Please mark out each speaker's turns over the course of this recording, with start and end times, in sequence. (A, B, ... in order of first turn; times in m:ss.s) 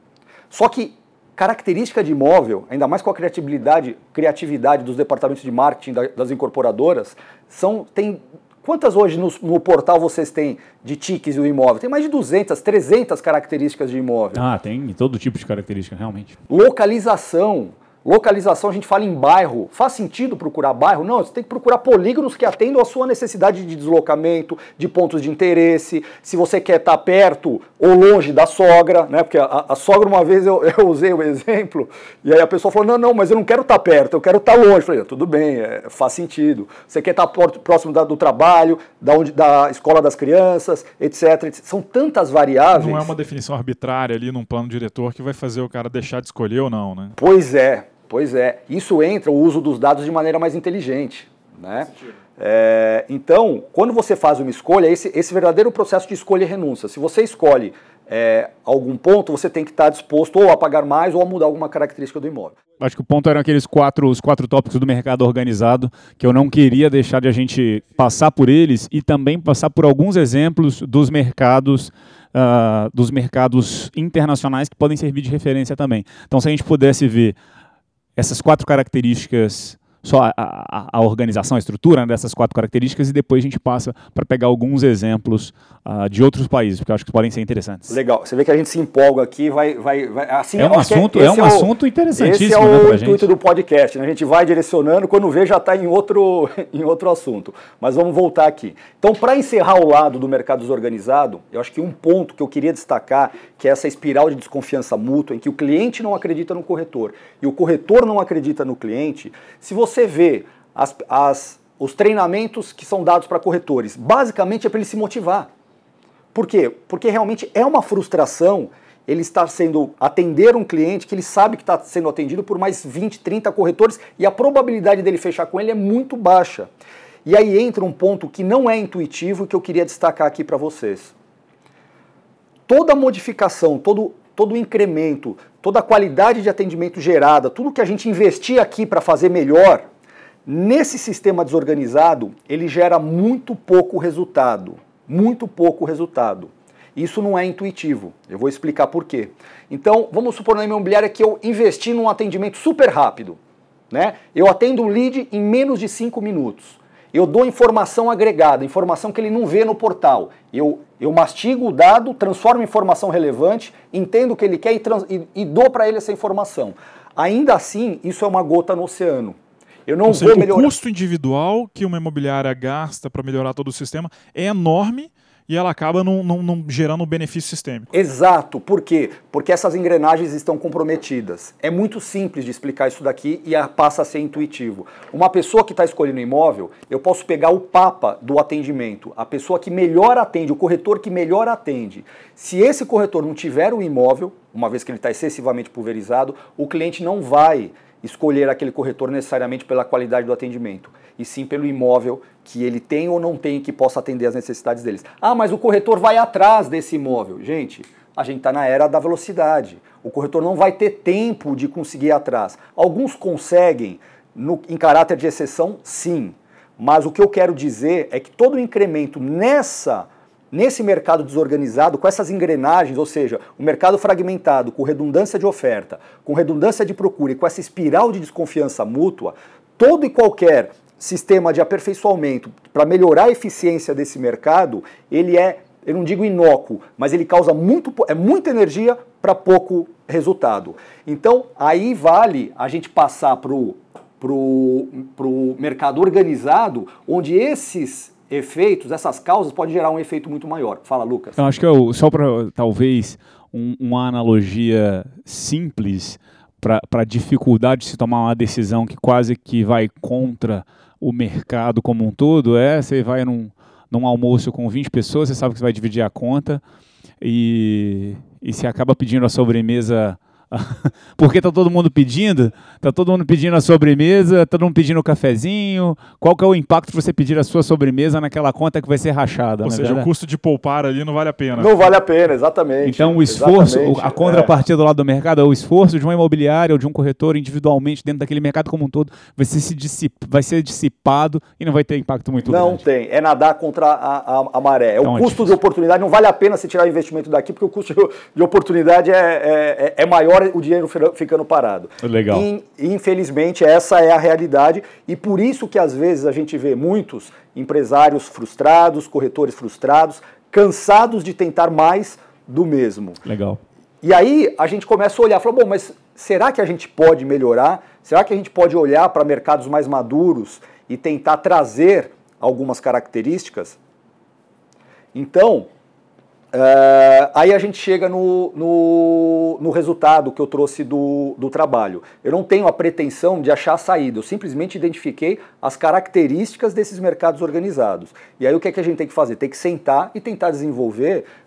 0:00.5-0:14.4 A
0:14.3-0:16.4 B
0:16.5-0:43.1 A
0:42.7-0:47.2 C
0:47.2-1:02.6 A
1:02.8-1:17.4 B
1:18.2-1:28.0 B
1:27.9-1:55.5 A
1:30.6-1:33.2 B
1:56.3-2:06.7 A
2:07.2-2:11.1 A
2:12.7-2:19.9 A
2:20.4-2:33.4 A
2:33.9-2:50.7 A
2:50.1-2:57.9 C
2:57.9-4:11.4 A
4:11.4-4:26.6 B
4:27.2-4:40.1 B
4:39.6-4:41.9 C
4:41.6-4:44.5 A
4:42.8-4:52.8 B
4:52.5-5:13.2 A
4:55.0-4:55.5 B
5:02.0-5:02.4 B
5:13.2-5:13.6 B
5:14.0-5:23.8 A
5:25.1-5:25.7 A
5:26.5-5:41.3 A